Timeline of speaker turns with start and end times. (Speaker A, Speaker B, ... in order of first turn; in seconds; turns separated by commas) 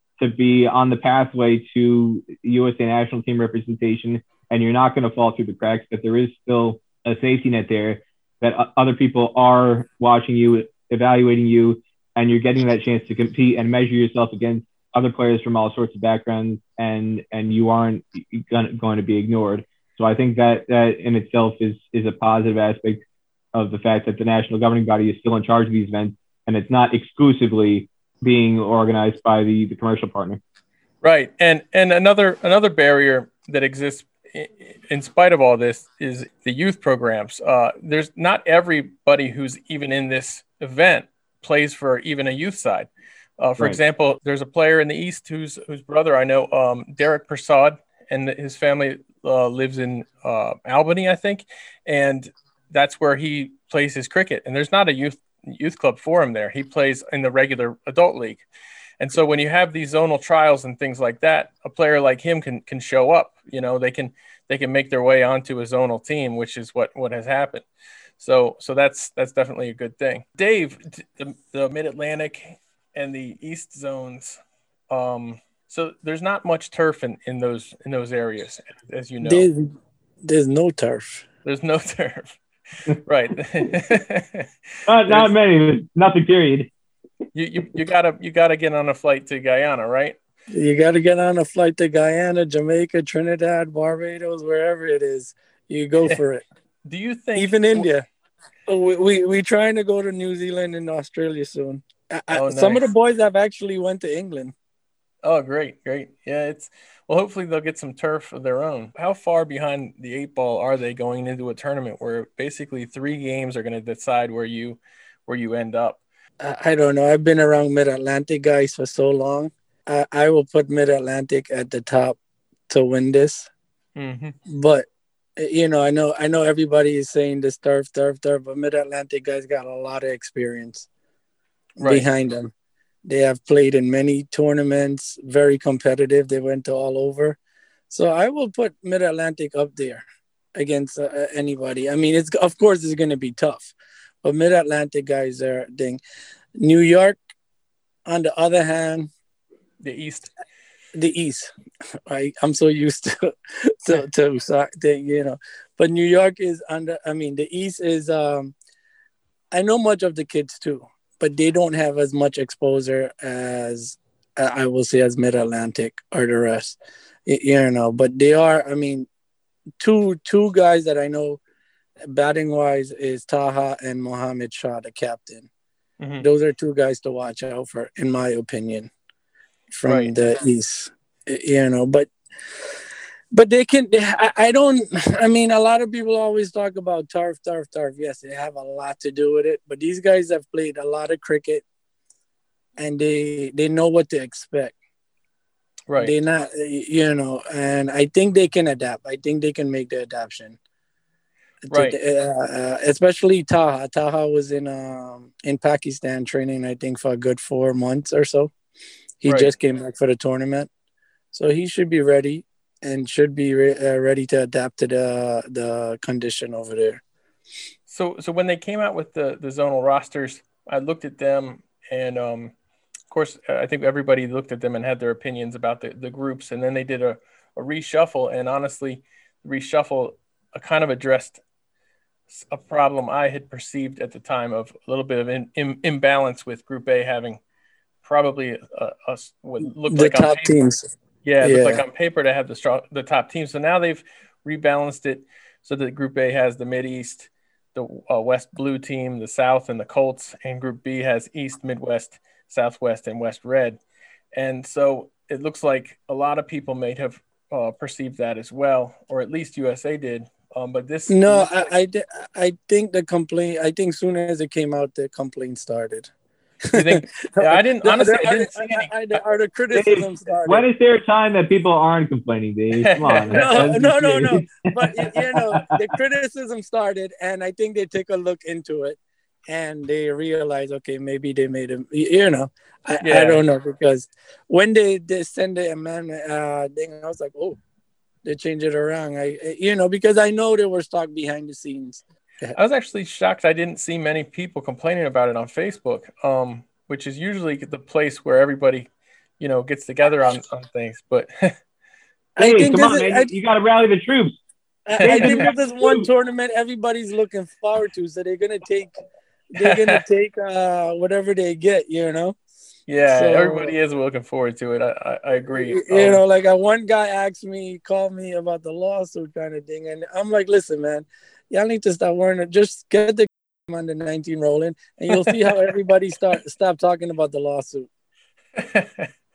Speaker A: 0.2-23.0, Speaker A: 23.5-30.4, Speaker B: 31.0-58.4, Speaker B: 59.0-67.7, Speaker B: 68.2-79.5, Speaker C: 79.2-79.7, Speaker C: 80.2-81.2, Speaker B: 81.4-82.3, Speaker B: 83.0-84.5, Speaker A: 84.8-86.7, Speaker B: 85.0-85.3, Speaker B: 87.3-90.2, Speaker C: 90.5-96.4, Speaker B: 96.8-97.9, Speaker C: 97.3-98.0, Speaker C: 98.7-104.5, Speaker B: 102.3-102.8, Speaker B: 105.2-116.0, Speaker C: 116.4-122.2, Speaker C: 122.7-123.5, Speaker B: 124.0-124.3, Speaker C: 124.5-124.8, Speaker C: 125.4-130.9, Speaker B: 131.8-132.1, Speaker C: 131.8-132.5, Speaker C: 133.0-137.4, Speaker C: 137.9-140.0, Speaker C: 140.6-146.0, Speaker C: 146.6-147.2, Speaker C: 148.1-149.1, Speaker B: 149.8-150.3, Speaker C: 150.9-151.5, Speaker C: 152.1-158.5, Speaker C: 159.5-169.1, Speaker C: 169.8-171.4, Speaker C: 172.1-175.5, Speaker B: 176.0-176.2, Speaker C: 176.2-178.9, Speaker C: 179.7-182.1, Speaker B: 179.8-180.1, Speaker C: 183.3-191.6, Speaker C: 192.8-194.8, Speaker B: 195.9-196.1, Speaker C: 196.0-200.6, Speaker C: 201.7-208.5, Speaker B: 201.7-202.0, Speaker C: 209.2-210.7, Speaker B: 209.2-209.5, Speaker C: 211.3-217.0, Speaker B: 217.9-222.5, Speaker B: 223.1-231.4, Speaker B: 232.3-237.4, Speaker B: 238.0-240.5, Speaker C: 239.9-240.9, Speaker B: 241.2-253.8, Speaker C: 241.4-241.8, Speaker B: 254.3-261.7, Speaker C: 261.1-266.1, Speaker C: 266.7-270.7, Speaker B: 266.7-269.2, Speaker A: 269.7-275.7, Speaker B: 272.8-273.5, Speaker C: 273.3-287.6, Speaker B: 283.0-283.4, Speaker C: 288.2-292.6, Speaker B: 292.5-301.5, Speaker C: 302.4-303.3, Speaker A: 302.4-304.4, Speaker C: 304.9-309.0, Speaker B: 305.0-305.5, Speaker A: 305.0-306.1, Speaker C: 309.5-312.4, Speaker B: 309.6-310.0, Speaker B: 312.9-316.2, Speaker C: 313.0-313.7, Speaker C: 315.5-327.9, Speaker B: 325.1-325.5, Speaker B: 328.6-329.1